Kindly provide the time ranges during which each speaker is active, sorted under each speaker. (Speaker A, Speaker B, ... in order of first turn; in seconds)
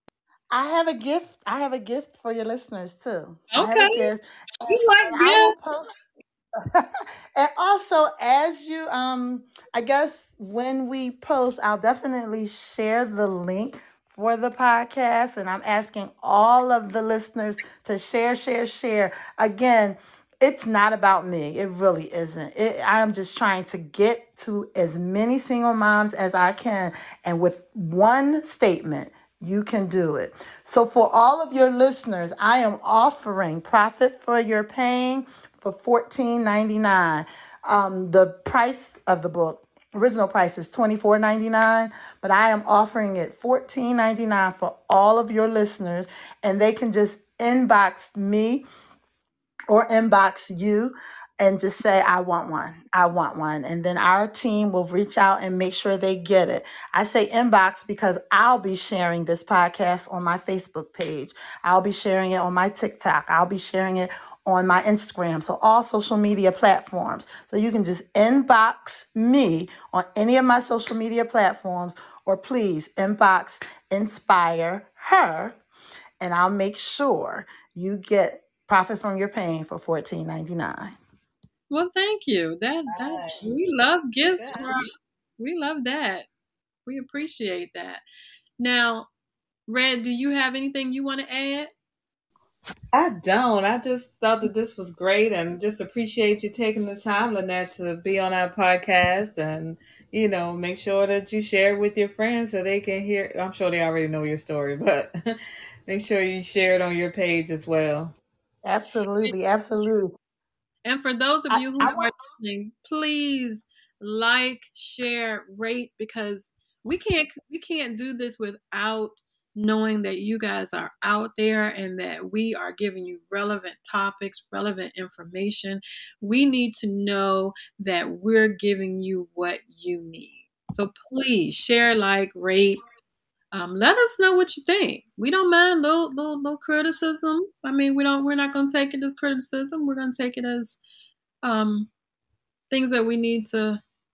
Speaker A: 0.5-5.8, 6.6-48.6, 49.7-75.6, 76.2-81.0, 108.7-110.1, 111.5-112.1
Speaker B: 3.5-4.1, 4.7-5.6, 81.7-84.9, 85.4-86.3, 86.9-88.0, 88.6-89.1, 89.7-91.7, 110.8-132.8, 133.5-140.8, 141.4-141.9, 142.7-143.8
Speaker C: 82.9-83.5, 84.4-84.7, 92.9-108.1